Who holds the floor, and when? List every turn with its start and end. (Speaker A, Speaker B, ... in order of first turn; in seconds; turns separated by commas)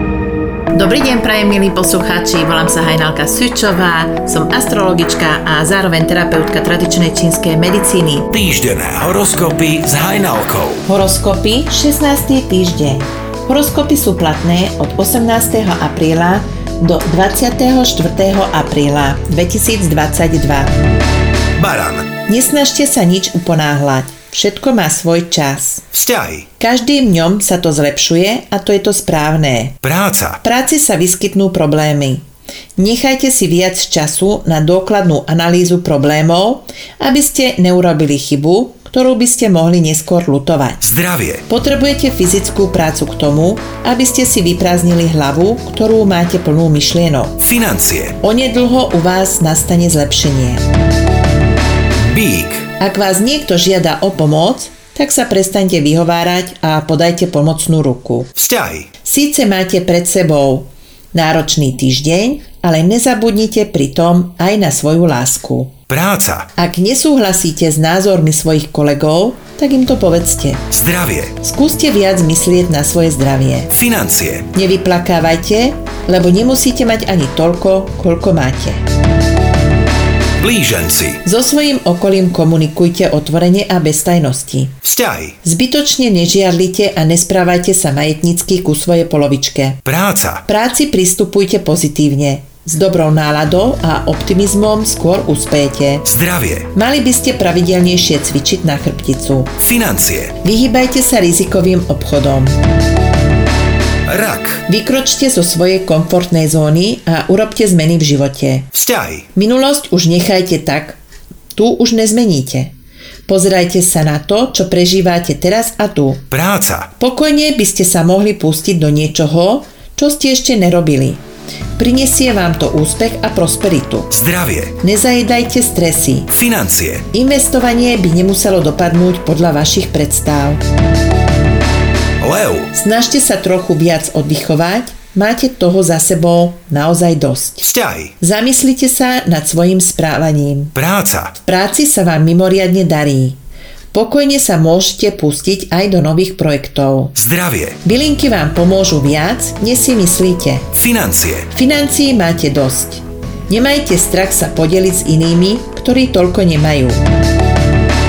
Speaker A: 0.7-8.3, Speaker B: 8.3-10.9, Speaker A: 10.9-20.7, Speaker B: 21.6-22.1, Speaker A: 22.3-25.9, Speaker B: 25.9-26.5, Speaker A: 26.6-29.8, Speaker B: 29.8-30.4, Speaker A: 30.4-32.2, Speaker A: 32.8-40.8, Speaker B: 40.8-41.4, Speaker A: 41.5-47.4, Speaker B: 47.4-48.2, Speaker A: 48.2-50.6, Speaker B: 52.0-52.7, Speaker A: 52.8-58.3, Speaker B: 58.4-58.9, Speaker A: 59.0-65.8, Speaker B: 65.9-66.5, Speaker A: 66.6-70.7, Speaker B: 70.7-71.4, Speaker A: 71.4-73.7, Speaker B: 73.7-74.5, Speaker A: 74.5-78.8, Speaker B: 80.4-81.2, Speaker A: 81.2-84.8, Speaker B: 84.8-85.4, Speaker A: 85.4-89.8, Speaker B: 89.8-90.5, Speaker A: 90.5-96.1, Speaker B: 96.0-96.7, Speaker A: 96.7-99.5, Speaker B: 99.6-100.3, Speaker A: 100.4-102.6, Speaker B: 104.1-104.6, Speaker A: 104.7-108.7, Speaker B: 108.7-109.3, Speaker A: 109.3-111.0, Speaker A: 111.5-112.7, Speaker A: 113.3-116.3, Speaker B: 116.3-116.9, Speaker A: 117.0-121.2, Speaker A: 121.8-124.1, Speaker B: 124.1-124.8, Speaker A: 124.8-126.3, Speaker B: 126.3-127.0, Speaker A: 127.1-130.6, Speaker B: 132.2-132.7, Speaker A: 132.7-137.7, Speaker B: 137.6-138.1, Speaker A: 138.2-140.7, Speaker B: 140.8-141.4, Speaker A: 141.4-143.4, Speaker A: 143.9-147.2, Speaker B: 147.2-147.8, Speaker A: 147.8-150.7, Speaker B: 150.7-151.5, Speaker A: 151.5-157.0